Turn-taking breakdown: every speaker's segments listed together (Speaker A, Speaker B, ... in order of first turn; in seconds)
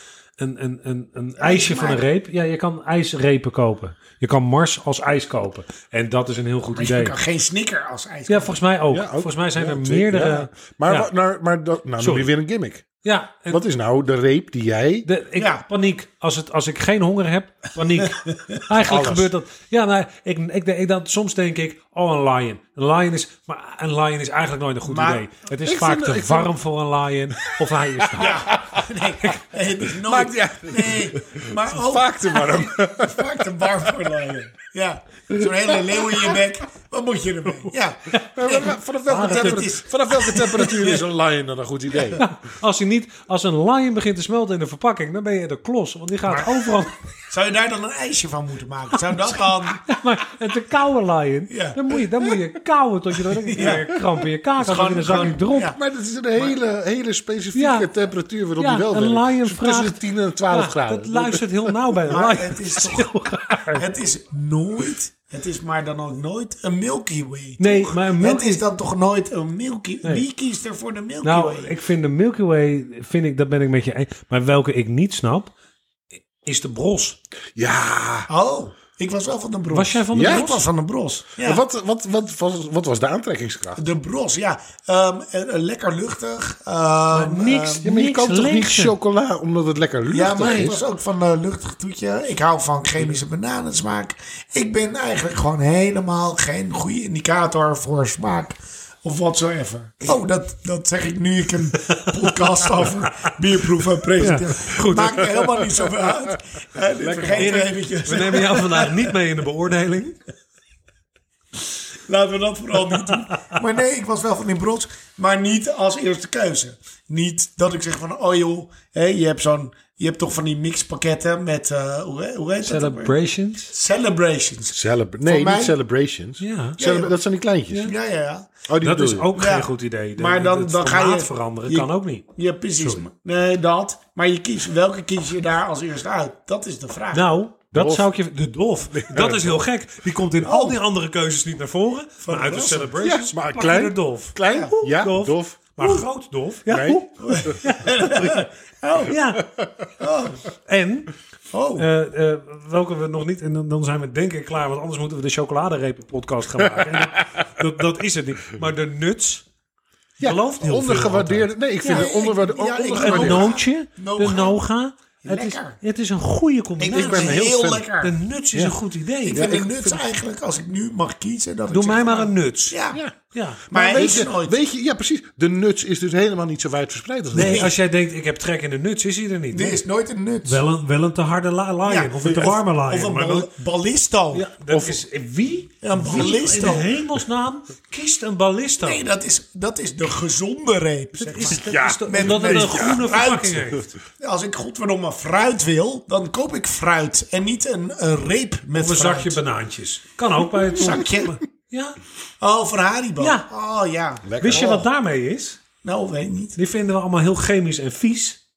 Speaker A: 0.4-7.2, 8.3-11.1, 12.0-12.3, 13.0-13.6, 15.1-28.5, 39.1-39.7, 42.2-46.9, 49.8-55.8, 57.5-57.9, 58.6-63.8, 67.6-68.6, 71.2-75.5, 76.4-77.2, 79.7-80.6, 87.1-88.9, 90.4-90.8, 101.9-102.3, 104.2-105.4, 107.3-110.2, 113.1-113.5, 122.6-123.7, 126.4-126.8, 128.8-132.2, 132.8-133.0, 137.1-148.5, 149.0-149.5, 150.6-151.1, 151.8-159.4, 160.2-162.1, 162.9-169.5, 171.7-172.8, 173.3-174.2, 177.3-179.8, 180.4-183.5, 184.3-189.0, 191.2-193.9, 198.7-202.0, 203.2-203.4, 204.4-205.6, 206.6-208.4
Speaker B: 1.4-2.0, 6.8-8.6, 15.3-15.6, 18.0-18.6, 24.9-25.2, 28.2-41.0, 46.3-49.9, 51.5-52.4, 53.4-53.9, 54.6-55.8, 62.1-63.1, 63.7-71.7, 78.3-81.6, 83.8-87.8, 90.1-109.1, 112.1-123.2, 123.7-125.7, 126.8-127.2, 127.8-128.6, 129.3-137.3, 140.4-140.8, 142.2-142.9, 144.5-144.7, 147.2-149.2, 150.0-150.4, 151.5-151.9, 161.8-164.6, 165.2-165.8, 166.8-168.2, 169.2-173.0, 173.7-174.6, 177.3-177.7, 179.5-180.6, 181.8-184.5, 185.8-186.9, 188.8-199.4, 200.7-201.4, 202.4-204.8, 205.8-206.6
Speaker C: 8.9-12.9, 13.5-15.1, 18.8-19.3, 25.6-26.5, 28.0-28.9, 29.8-34.3, 35.4-36.4, 38.4-42.2, 55.7-61.9, 77.5-78.3, 80.1-80.5, 81.4-83.8, 87.8-90.8, 106.9-107.5, 124.7-127.9, 128.7-129.3, 137.7-138.1, 138.9-139.6, 143.0-146.0, 146.7-147.6, 156.7-157.2, 160.2-163.6, 166.9-167.9, 169.3-170.0, 173.7-177.7, 184.7-185.0, 191.4-193.0, 204.2-204.8